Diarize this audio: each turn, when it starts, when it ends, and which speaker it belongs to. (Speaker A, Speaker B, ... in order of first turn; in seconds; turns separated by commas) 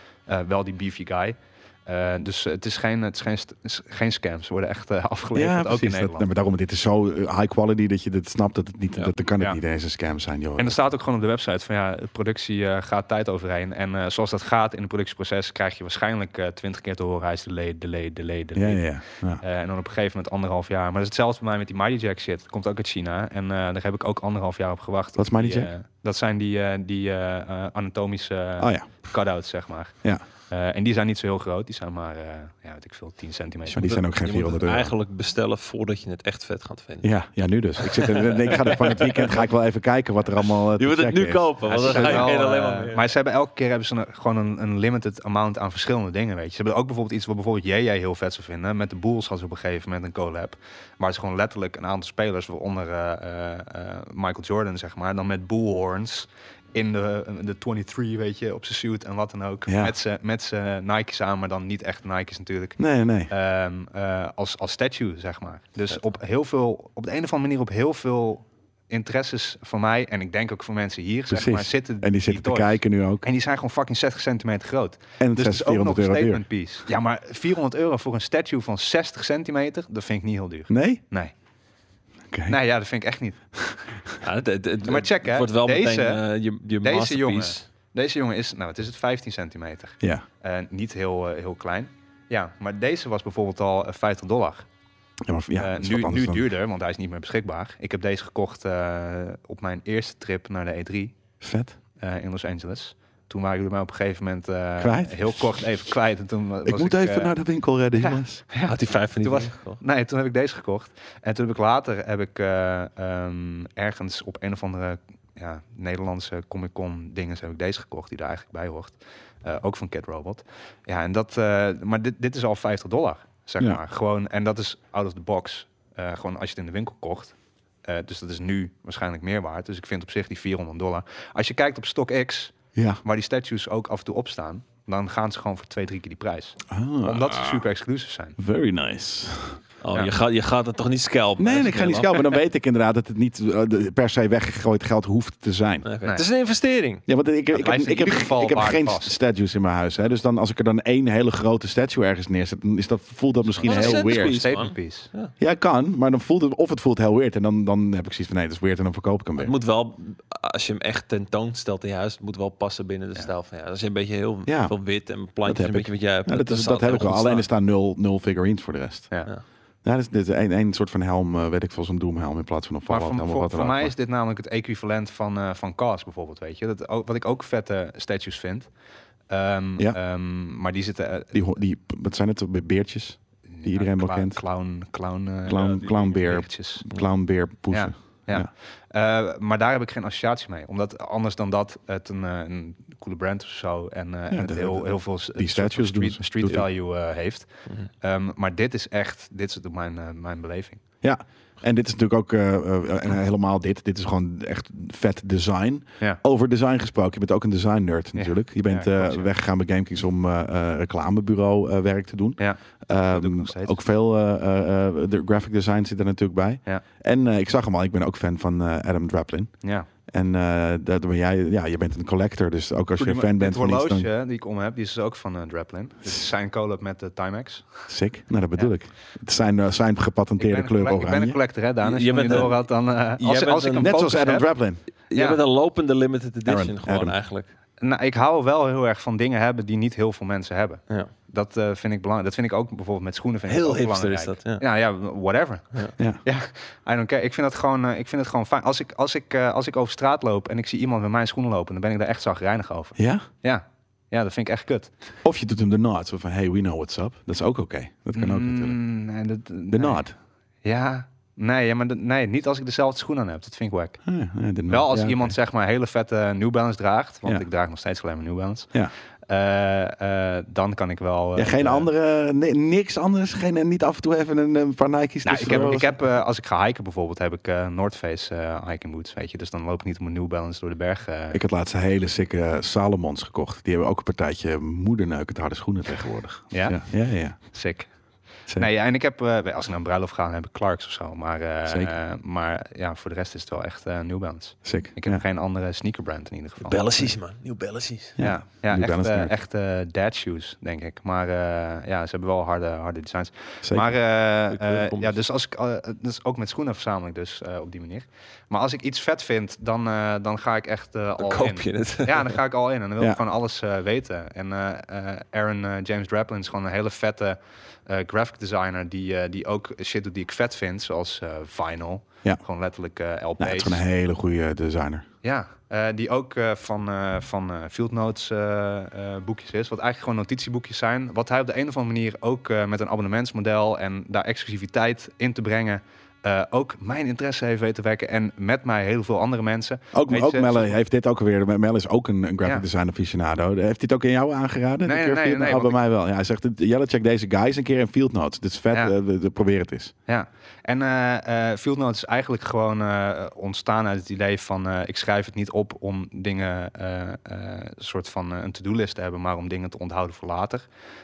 Speaker A: 0.3-6.3, Speaker B: 5.3-10.8, Speaker A: 9.0-9.6, Speaker A: 10.6-34.0, Speaker B: 18.6-19.4, Speaker B: 25.2-25.7, Speaker B: 28.6-28.9, Speaker B: 33.7-34.9, Speaker C: 33.8-37.2, Speaker B: 37.0-42.3, Speaker C: 37.8-39.5, Speaker C: 40.8-43.0, Speaker A: 41.6-81.3, Speaker B: 59.7-60.0, Speaker B: 62.8-63.3, Speaker B: 71.3-73.3, Speaker B: 75.2-76.4, Speaker B: 80.7-81.0, Speaker B: 82.3-82.6, Speaker A: 82.5-83.8, Speaker C: 84.2-87.6, Speaker A: 84.9-86.2, Speaker A: 86.8-94.7, Speaker B: 95.2-96.5, Speaker A: 95.6-101.2, Speaker B: 101.4-101.8, Speaker A: 102.0-107.3, Speaker B: 104.8-105.8, Speaker B: 106.7-108.4, Speaker A: 108.0-138.4, Speaker C: 108.6-109.8, Speaker B: 132.8-133.0, Speaker B: 136.7-137.6, Speaker B: 138.4-139.6, Speaker C: 139.8-142.4, Speaker B: 141.4-145.9, Speaker C: 145.8-147.1, Speaker B: 147.1-154.5, Speaker A: 147.5-149.2, Speaker A: 153.5-155.1, Speaker C: 153.6-155.3, Speaker B: 155.4-159.5, Speaker C: 159.4-167.5, Speaker B: 164.5-169.2, Speaker B: 169.8-173.9, Speaker A: 172.9-178.7, Speaker A: 179.3-181.6, Speaker B: 181.3-184.5, Speaker A: 183.5-186.8, Speaker B: 185.5-188.5, Speaker A: 187.7-200.8, Speaker B: 194.3-196.7, Speaker B: 201.0-224.1, Speaker A: 208.2-209.3, Speaker A: 212.4-213.8, Speaker A: 219.6-219.9, Speaker A: 223.0-227.9, Speaker B: 227.9-231.4, Speaker A: 230.4-234.5, Speaker C: 231.8-234.1, Speaker B: 233.8-234.8, Speaker C: 235.1-237.5, Speaker A: 235.1-235.4, Speaker B: 236.5-237.2, Speaker A: 237.8-254.9, Speaker C: 243.5-244.6, Speaker B: 253.0-253.3, Speaker B: 255.2-258.8, Speaker A: 258.1-260.0, Speaker B: 259.7-260.1, Speaker A: 260.6-264.0, Speaker B: 264.0-265.4, Speaker A: 264.7-271.9, Speaker B: 271.4-276.0, Speaker A: 275.2-281.4, Speaker B: 281.3-287.6, Speaker A: 286.5-297.2, Speaker B: 291.7-291.9, Speaker B: 294.6-295.2, Speaker C: 296.6-298.2, Speaker B: 298.2-299.4, Speaker A: 298.2-323.8, Speaker B: 303.6-303.9, Speaker C: 304.5-305.2, Speaker C: 311.2-312.4, Speaker B: 323.4-325.1, Speaker A: 325.2-340.8, Speaker B: 339.9-349.9, Speaker A: 344.9-345.8, Speaker A: 350.1-360.7